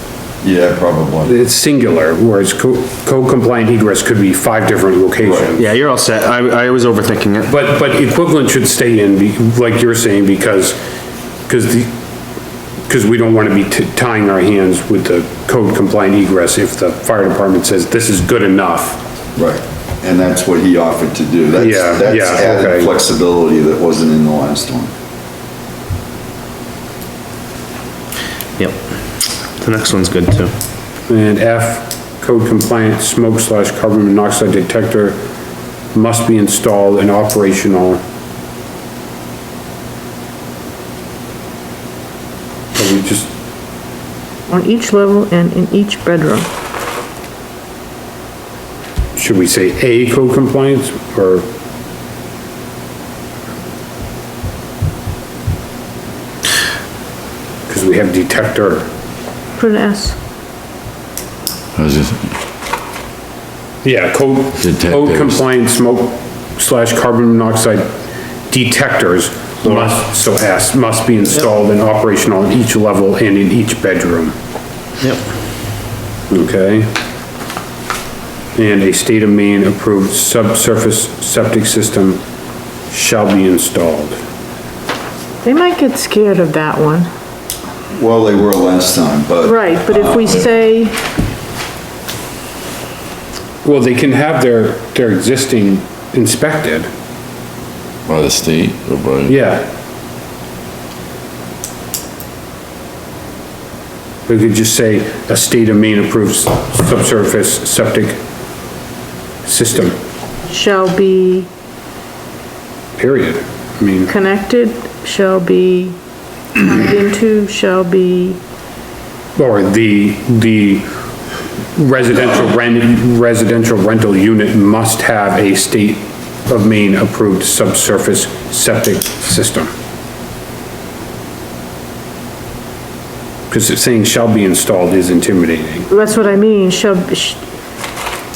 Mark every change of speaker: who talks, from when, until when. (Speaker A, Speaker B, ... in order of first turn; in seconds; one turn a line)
Speaker A: 0.4-1.4
Speaker B: 1.3-5.7
Speaker A: 5.2-5.5
Speaker C: 5.6-7.5
Speaker B: 7.5-10.8
Speaker B: 11.5-11.9
Speaker B: 12.9-19.0
Speaker A: 19.4-24.9
Speaker B: 21.6-22.9
Speaker C: 29.6-30.5
Speaker B: 31.1-35.2
Speaker B: 35.9-38.0
Speaker B: 42.8-43.3
Speaker D: 44.5-46.5
Speaker B: 49.2-51.5
Speaker B: 57.7-58.9
Speaker D: 59.6-60.2
Speaker E: 61.8-62.3
Speaker B: 63.8-67.9
Speaker E: 64.6-65.4
Speaker B: 68.5-74.3
Speaker C: 69.7-69.9
Speaker B: 76.3-76.9
Speaker B: 78.5-82.2
Speaker B: 82.9-84.2
Speaker D: 85.4-87.1
Speaker A: 87.9-90.5
Speaker D: 89.4-91.0
Speaker B: 93.6-96.9
Speaker E: 98.1-99.4
Speaker B: 99.3-99.7
Speaker B: 104.3-108.2
Speaker B: 109.4-110.0
Speaker D: 110.5-111.5
Speaker B: 113.0-114.1
Speaker D: 114.1-116.0
Speaker D: 116.6-118.4
Speaker B: 119.4-120.9
Speaker B: 121.7-129.7
Speaker B: 133.5-135.9
Speaker D: 135.9-137.4